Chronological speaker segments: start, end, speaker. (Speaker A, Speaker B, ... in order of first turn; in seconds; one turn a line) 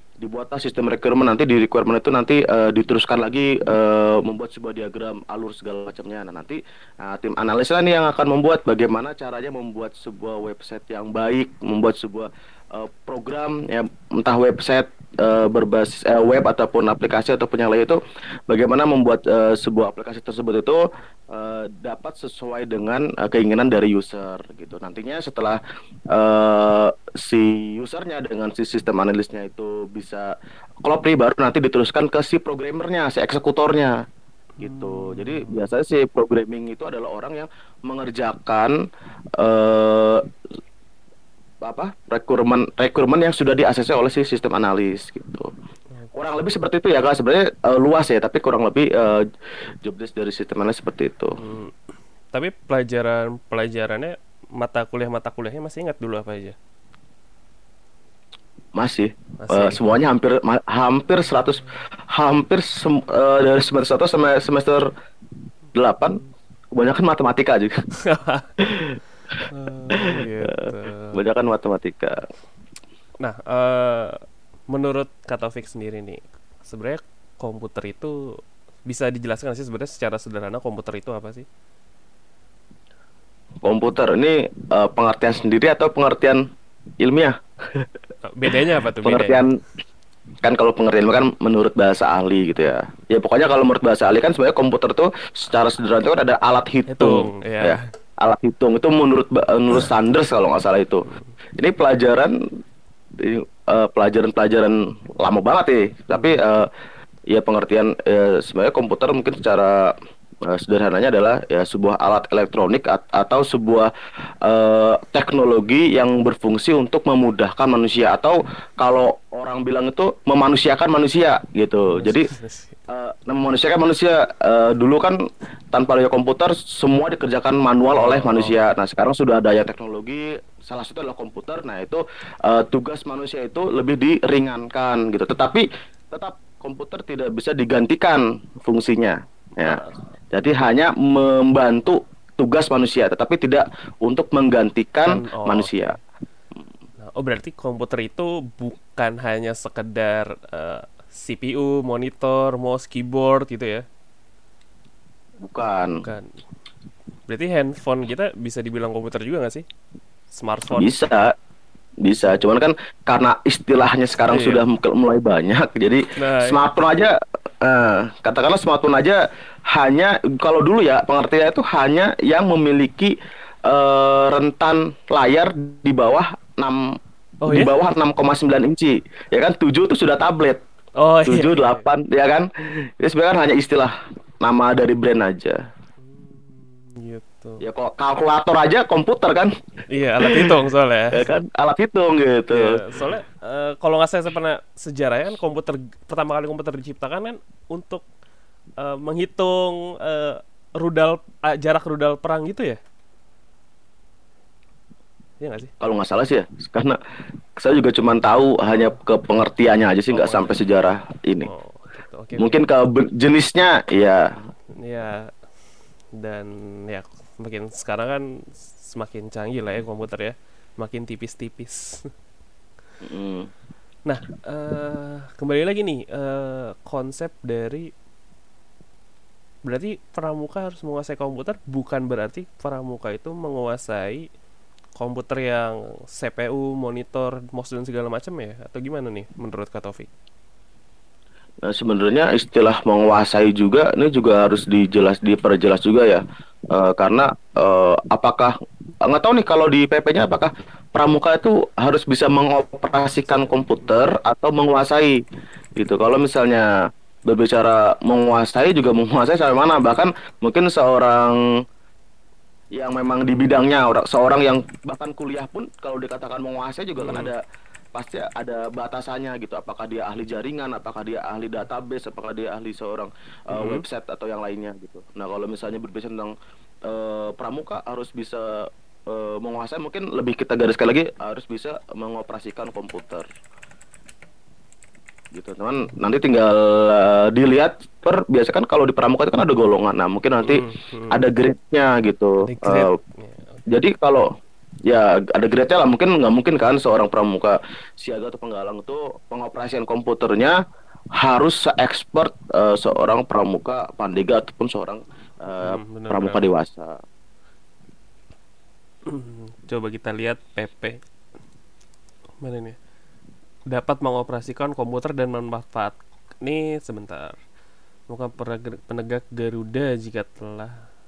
Speaker A: 0.2-25.6
Speaker A: 26.1-34.0
Speaker B: 34.6-35.7
Speaker A: 34.6-38.8
Speaker A: 39.4-40.2
Speaker A: 41.6-45.5
Speaker A: 46.1-49.2
Speaker A: 49.8-51.4
Speaker B: 51.4-51.8
Speaker B: 52.3-56.6
Speaker A: 58.8-64.8
Speaker B: 59.4-59.8
Speaker A: 65.7-66.2
Speaker A: 66.7-67.7
Speaker B: 68.1-68.5
Speaker A: 68.6-69.0
Speaker B: 69.5-71.2
Speaker A: 69.9-72.2
Speaker B: 73.2-78.2
Speaker B: 78.9-81.5
Speaker A: 83.6-86.4
Speaker A: 87.0-87.9
Speaker B: 88.3-89.5
Speaker A: 89.0-89.6
Speaker A: 90.4-101.1
Speaker B: 96.9-97.8
Speaker A: 101.6-102.4
Speaker A: 103.2-106.7
Speaker B: 106.1-106.4
Speaker A: 107.3-109.9
Speaker A: 110.5-113.9
Speaker A: 114.4-122.3
Speaker B: 121.9-122.8
Speaker A: 122.9-125.2
Speaker A: 125.7-146.0
Speaker B: 127.9-128.6
Speaker B: 139.7-139.9
Speaker B: 145.1-146.0
Speaker B: 147.0-153.8
Speaker A: 155.4-156.0
Speaker B: 156.0-156.3
Speaker B: 157.3-159.7
Speaker B: 160.3-160.9
Speaker A: 160.7-161.3
Speaker A: 162.0-173.2
Speaker B: 164.3-164.6
Speaker B: 166.2-166.6
Speaker A: 173.7-176.8
Speaker B: 177.4-177.7
Speaker A: 177.5-180.6
Speaker B: 181.0-181.9
Speaker A: 181.3-185.6
Speaker B: 186.1-187.6
Speaker A: 187.6-189.5
Speaker B: 189.9-191.3
Speaker A: 190.2-190.5
Speaker A: 191.1-192.8
Speaker B: 192.5-198.1
Speaker B: 198.8-202.8
Speaker B: 205.4-205.7
Speaker A: 205.8-207.0
Speaker A: 207.6-211.5
Speaker B: 210.1-210.6
Speaker B: 211.5-212.6
Speaker A: 212.4-214.3
Speaker B: 214.8-215.2
Speaker B: 216.2-221.9
Speaker A: 223.0-223.5
Speaker B: 224.1-227.9
Speaker B: 229.7-234.3
Speaker B: 235.0-240.1
Speaker A: 241.7-255.2
Speaker B: 253.3-253.9
Speaker A: 255.8-256.7
Speaker A: 257.3-261.4
Speaker A: 262.8-267.4
Speaker B: 267.0-267.3
Speaker A: 267.9-276.4
Speaker B: 273.5-273.9
Speaker A: 276.9-283.3
Speaker A: 285.3-292.9
Speaker B: 290.4-291.2
Speaker B: 292.4-293.6
Speaker A: 293.7-294.3
Speaker A: 294.9-300.6
Speaker A: 301.2-306.9
Speaker B: 305.6-306.4
Speaker B: 309.1-311.0
Speaker B: 312.4-312.8
Speaker B: 313.7-317.4
Speaker B: 318.1-320.8